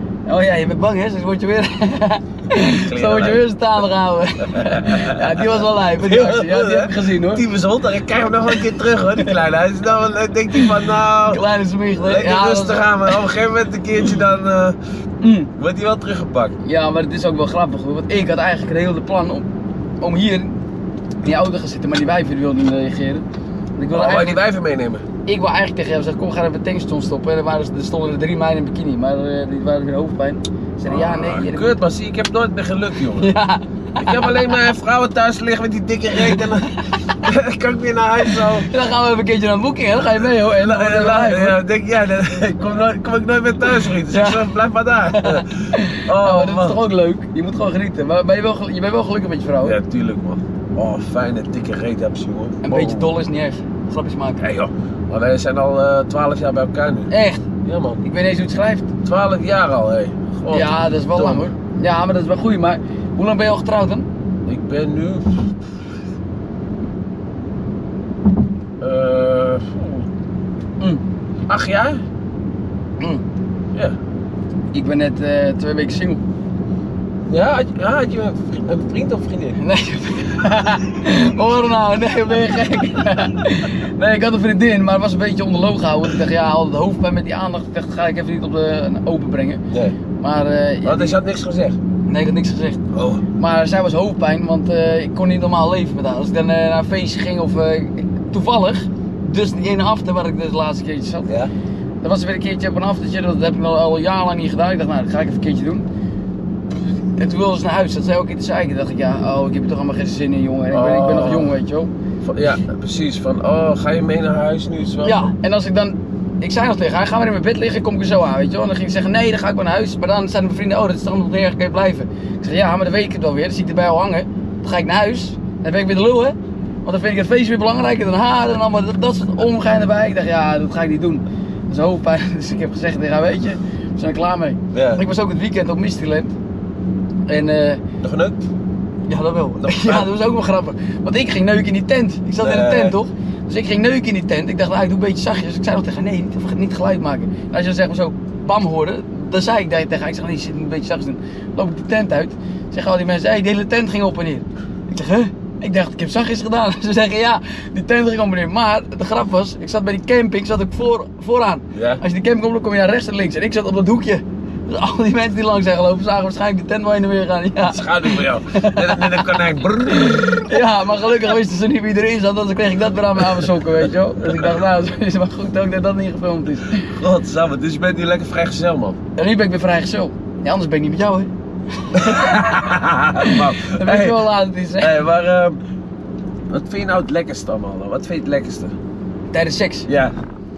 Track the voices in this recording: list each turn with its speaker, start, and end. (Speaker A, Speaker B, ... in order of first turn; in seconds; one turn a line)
Speaker A: 0.2-7.4
Speaker B: 2.5-3.4
Speaker B: 4.4-11.4
Speaker A: 8.5-9.4
Speaker A: 11.3-13.3
Speaker B: 11.9-14.8
Speaker A: 15.2-15.5
Speaker B: 15.6-16.5
Speaker A: 16.6-19.4
Speaker A: 20.0-20.6
Speaker A: 21.2-23.2
Speaker A: 23.8-24.4
Speaker B: 23.9-25.0
Speaker A: 25.2-31.8
Speaker B: 30.9-33.4
Speaker A: 33.1-34.7
Speaker B: 34.0-38.7
Speaker A: 36.1-36.8
Speaker A: 38.2-41.6
Speaker B: 40.4-46.8
Speaker A: 43.8-44.5
Speaker A: 45.1-49.8
Speaker B: 49.6-53.1
Speaker A: 52.6-54.4
Speaker B: 54.4-57.1
Speaker A: 57.1-57.5
Speaker B: 57.6-58.0
Speaker A: 58.0-58.9
Speaker B: 59.0-61.5
Speaker A: 60.5-64.1
Speaker B: 64.5-65.5
Speaker B: 68.8-70.1
Speaker B: 71.5-72.0
Speaker A: 74.7-76.2
Speaker B: 77.3-79.6
Speaker A: 79.6-89.6
Speaker A: 90.2-91.2
Speaker B: 90.8-91.8
Speaker A: 92.1-92.8
Speaker B: 92.9-93.2
Speaker A: 93.3-101.3
Speaker B: 101.2-101.5
Speaker A: 102.0-105.8
Speaker A: 107.2-111.9
Speaker B: 110.7-111.5
Speaker B: 112.2-115.3
Speaker A: 115.0-136.3
Speaker B: 134.7-135.0
Speaker A: 137.3-137.8
Speaker B: 138.0-138.4
Speaker A: 139.1-176.9
Speaker B: 139.6-140.1
Speaker B: 142.4-142.9
Speaker B: 161.7-162.0
Speaker B: 167.6-170.5
Speaker B: 176.8-179.0
Speaker A: 179.2-182.5
Speaker B: 181.9-184.2
Speaker A: 183.2-185.0
Speaker B: 184.8-185.6
Speaker B: 186.5-188.7
Speaker A: 189.3-189.9
Speaker B: 189.9-190.1